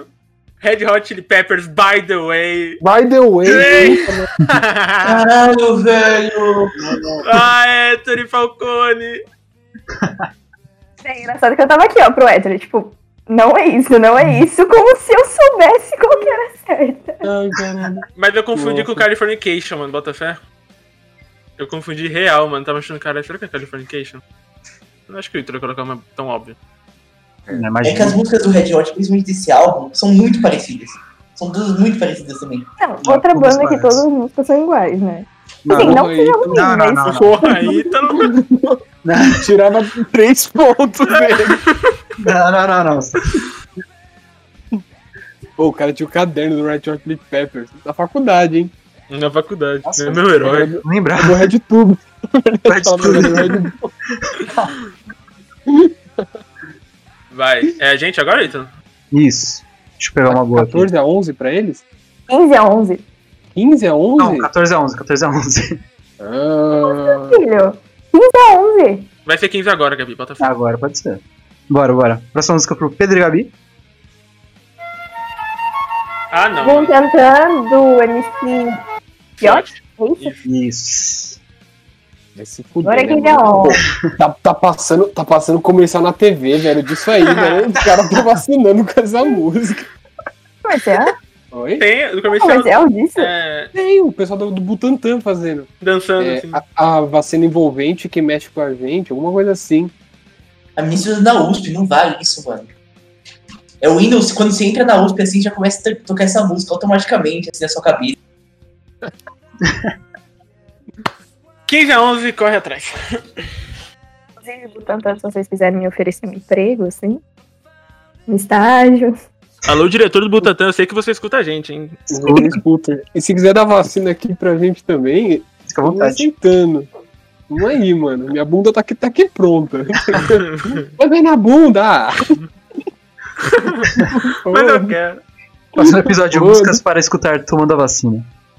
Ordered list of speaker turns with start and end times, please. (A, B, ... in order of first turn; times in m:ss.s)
0:00.6-0:02.8 A
0:02.8-0:04.3 B
0:03.4-0:05.2 A
0:05.0-0:06.7 C
0:06.9-0:07.2 B
0:07.2-0:09.2 A
0:09.9-0:10.3 D
0:11.0-0:17.2 E
0:17.2-0:19.0 B
0:18.2-0:20.4 A
0:21.6-0:24.2 A
0:25.1-0:26.6 A
0:27.5-0:28.2 D
0:27.8-0:32.7 C
0:32.8-0:37.0 E
0:33.0-0:34.0 D
0:35.6-0:37.3 D
0:35.7-0:36.8 B
0:37.0-0:38.4 A
0:37.4-0:41.6 B
0:39.0-0:39.5 D
0:41.3-0:42.0 A
0:42.2-0:43.4 D
0:45.6-0:48.7 B
0:49.1-0:50.7 A
0:49.9-0:51.5 D
0:50.4-0:53.9 B
0:52.7-0:53.6 D
0:54.2-0:54.7 D
0:55.7-0:56.3 B
0:57.3-0:58.7 A
0:59.1-1:00.9 D
1:00.3-1:01.8 B
1:02.3-1:03.0 E
1:03.5-1:04.5 B
1:04.2-1:05.8 D
1:06.2-1:07.4 B
1:06.9-1:09.1 E
1:09.2-1:10.5 A
1:10.4-1:13.5 D
1:16.3-1:16.9 A
1:16.6-1:18.8 E
1:19.4-1:20.5 A
1:19.4-1:20.3 E
1:20.4-1:21.4 D
1:22.4-1:29.9 B
1:22.8-1:23.8 E
1:27.2-1:27.7 A
1:30.6-1:31.1 E
1:31.5-1:31.8 B
1:31.8-1:33.7 A
1:32.3-1:33.3 E
1:33.7-1:35.7 B
1:35.8-1:36.6 A
1:36.2-1:39.9 B
1:40.8-1:42.7 C
1:43.8-1:48.1 C
1:49.6-1:49.9 D
1:51.7-1:53.5 A
1:54.4-1:57.2 E
1:58.3-1:59.2 E
1:59.6-2:02.3 A
2:02.1-2:06.9 B
2:05.7-2:06.3 D
2:07.5-2:12.4 B
2:10.3-2:10.9 A
2:13.4-2:13.9 A
2:14.1-2:15.0 B
2:14.5-2:15.2 A
2:15.8-2:18.3 D
2:15.8-2:16.8 B